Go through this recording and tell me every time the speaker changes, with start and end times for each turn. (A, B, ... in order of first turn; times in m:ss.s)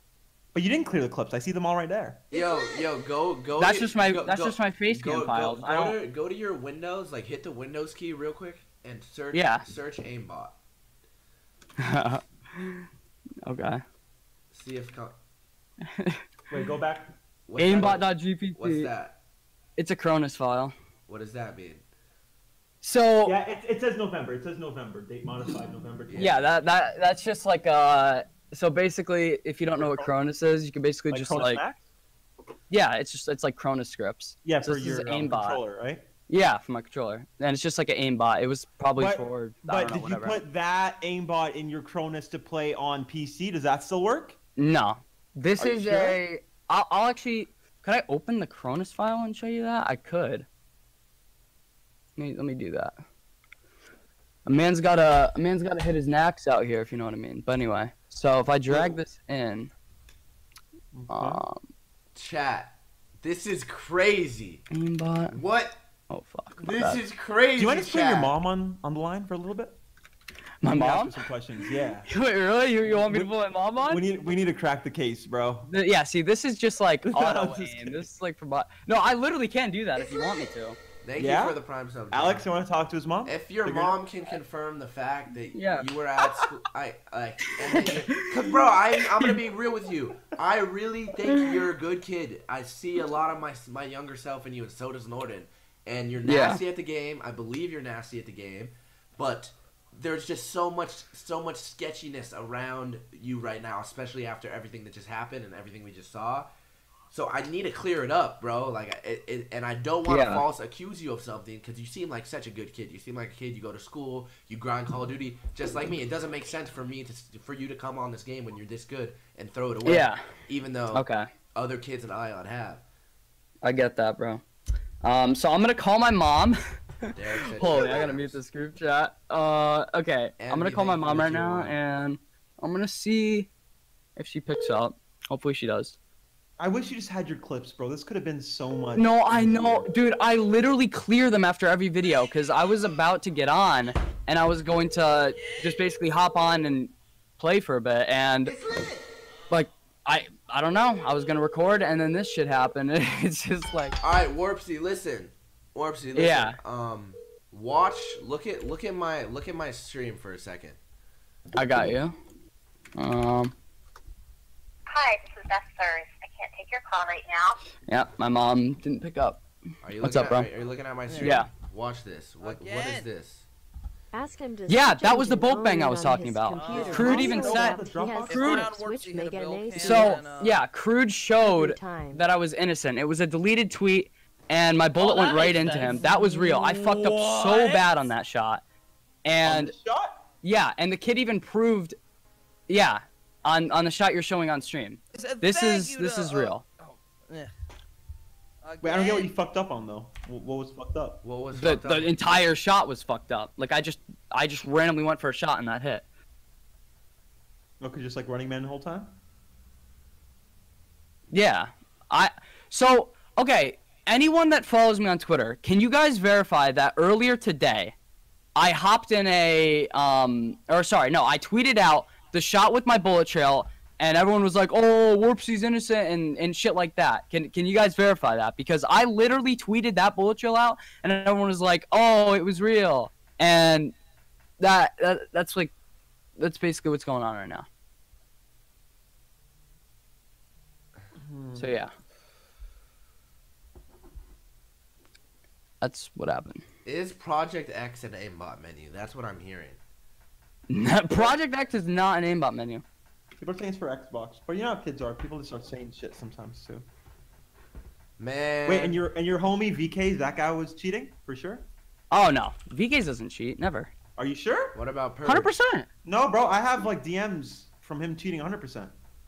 0:00.5-0:02.2 A
0:02.3-0:10.6 B
0:03.6-0:06.0 C
0:09.3-0:09.7 C
0:11.8-0:12.8 C
0:13.4-0:13.8 C
0:14.5-0:15.2 B
0:16.5-0:17.1 A
0:17.5-0:19.2 B
0:17.6-0:18.9 C
0:19.8-0:20.7 C
0:21.1-0:21.8 B
0:22.8-0:23.4 C
0:23.2-0:26.4 A
0:26.1-0:26.4 B
0:26.2-0:31.6 C
0:29.7-0:30.1 A
0:31.1-0:31.8 A
0:32.7-0:35.6 C
0:34.4-0:36.0 A
0:36.3-0:40.4 C
0:39.0-0:44.4 A
0:44.6-0:50.4 C
0:45.6-0:46.2 A
0:52.2-0:53.0 C
0:54.4-0:59.7 C
0:58.7-0:59.0 B
1:00.9-1:01.4 A
1:01.1-1:01.6 C
1:02.1-1:04.6 B
1:04.7-1:05.4 C
1:05.3-1:05.8 B
1:06.1-1:07.0 C
1:06.6-1:08.3 B
1:07.6-1:09.8 A
1:10.6-1:11.2 C
1:10.6-1:12.1 A
1:12.0-1:14.0 C
1:12.9-1:13.3 A
1:13.8-1:15.7 A
1:15.6-1:20.8 C
1:17.0-1:18.1 A
1:21.0-1:22.4 B
1:21.2-1:21.6 A
1:22.1-1:23.9 A
1:23.2-1:46.5 B
1:25.5-1:26.4 C
1:27.7-1:28.3 C
1:29.0-1:29.3 C
1:36.2-1:36.6 C
1:47.1-2:02.8 B
1:50.1-1:50.4 C
1:59.8-2:00.3 C
2:00.9-2:01.3 C
2:03.6-2:04.4 C
2:05.0-2:06.6 C
2:07.1-2:08.4 B
2:07.5-2:13.5 C
2:10.4-2:11.8 B
2:14.2-2:16.0 C
2:16.6-2:19.9 A
2:19.0-2:28.6 C
2:29.5-2:34.0 C
2:34.0-2:40.8 B
2:36.1-2:36.6 C
2:41.5-2:42.1 C
2:43.0-2:43.5 C
2:44.9-2:47.6 D
2:47.9-2:49.4 C
2:49.8-2:53.5 B
2:50.0-2:50.5 C
2:51.1-2:51.3 E
2:51.2-2:51.5 C
2:52.4-2:53.1 E
2:54.1-3:00.2 F
2:54.7-2:57.8 C
2:56.5-2:57.6 E
2:56.9-2:58.5 A
2:58.2-3:00.6 E
2:58.3-2:58.7 C
2:59.8-3:08.6 C
3:01.4-3:02.2 F
3:05.0-3:08.1 E
3:09.2-3:09.7 C
3:09.4-3:10.2 A
3:10.4-3:12.0 C
3:12.7-3:16.6 C
3:15.1-3:17.5 E
3:18.6-3:19.3 E
3:18.8-3:21.2 A
3:21.2-3:22.3 B
3:21.5-3:26.0 C
3:27.8-3:29.2 A
3:31.3-3:38.0 C
3:38.6-3:53.9 C
3:54.6-3:55.7 C
3:56.4-3:57.6 C
4:01.1-4:01.7 A
4:01.6-4:01.9 C
4:05.8-4:06.6 C
4:06.8-4:09.8 B
4:10.7-4:12.8 C
4:13.4-4:16.9 A
4:18.2-4:19.0 B
4:18.6-4:21.7 A
4:22.1-4:23.9 C
4:24.2-4:24.8 A
4:24.7-4:25.5 B
4:25.2-4:25.9 C
4:26.0-4:28.9 A